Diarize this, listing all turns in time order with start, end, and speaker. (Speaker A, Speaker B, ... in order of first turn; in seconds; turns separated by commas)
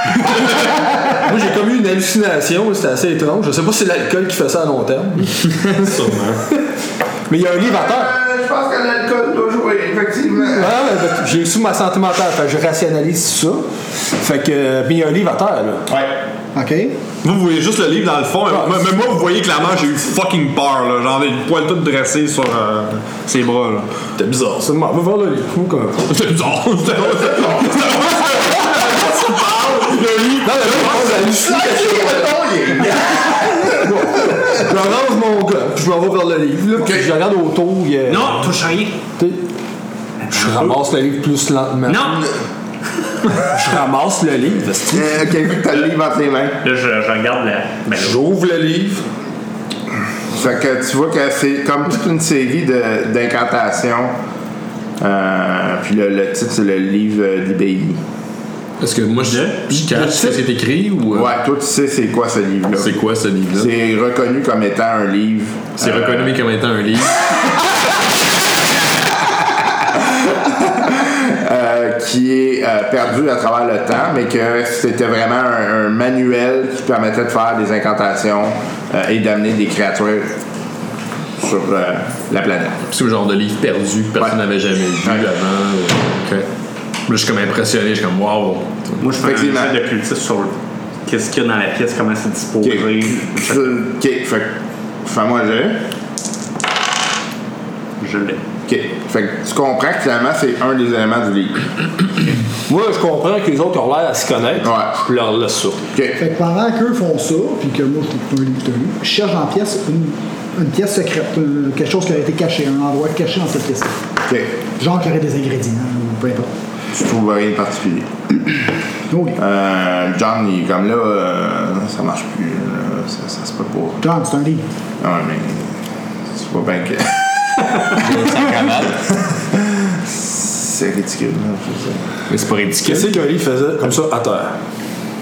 Speaker A: 0.2-6.0, Speaker B: 5.8-6.3, Speaker A: 7.3-8.1, Speaker C: 7.6-10.7, Speaker A: 10.3-15.9, Speaker C: 15.9-16.1, Speaker D: 16.5-17.0, Speaker B: 17.2-23.9, Speaker A: 18.5-18.9, Speaker A: 24.1-26.1, Speaker B: 26.1-30.0, Speaker C: 27.1-27.9, Speaker A: 30.0-32.3, Speaker C: 30.6-34.4, Speaker A: 32.8-38.5, Speaker C: 36.8-37.1, Speaker E: 38.1-39.0, Speaker E: 40.2-40.8, Speaker A: 40.3-42.2, Speaker E: 41.9-42.3, Speaker A: 43.4-45.2, Speaker C: 44.9-46.6, Speaker E: 46.6-48.2, Speaker A: 47.9-49.0, Speaker C: 50.3-54.1, Speaker C: 55.0-58.0, Speaker F: 58.8-61.4, Speaker E: 59.2-59.6, Speaker A: 59.7-60.3, Speaker C: 61.1-63.0, Speaker F: 62.7-63.7, Speaker C: 63.5-66.3, Speaker F: 65.8-67.3, Speaker C: 69.9-80.3, Speaker C: 81.4-82.8, Speaker F: 82.9-86.5, Speaker F: 87.0-89.0, Speaker E: 89.0-90.5, Speaker C: 89.2-89.7, Speaker E: 91.0-93.7, Speaker C: 92.6-95.8, Speaker E: 98.0-98.4, Speaker C: 98.7-102.1, Speaker A: 102.7-105.8, Speaker C: 104.6-104.9, Speaker C: 105.9-106.2, Speaker D: 106.2-113.9, Speaker C: 114.2-114.5, Speaker D: 114.8-116.5, Speaker C: 116.9-118.1, Speaker D: 119.1-119.4, Speaker C: 119.4-124.0, Speaker D: 124.0-124.6, Speaker C: 125.0-125.8, Speaker C: 126.3-127.2, Speaker C: 127.8-128.2, Speaker F: 127.9-129.1, Speaker C: 129.3-132.1, Speaker F: 132.3-133.1, Speaker A: 132.8-134.6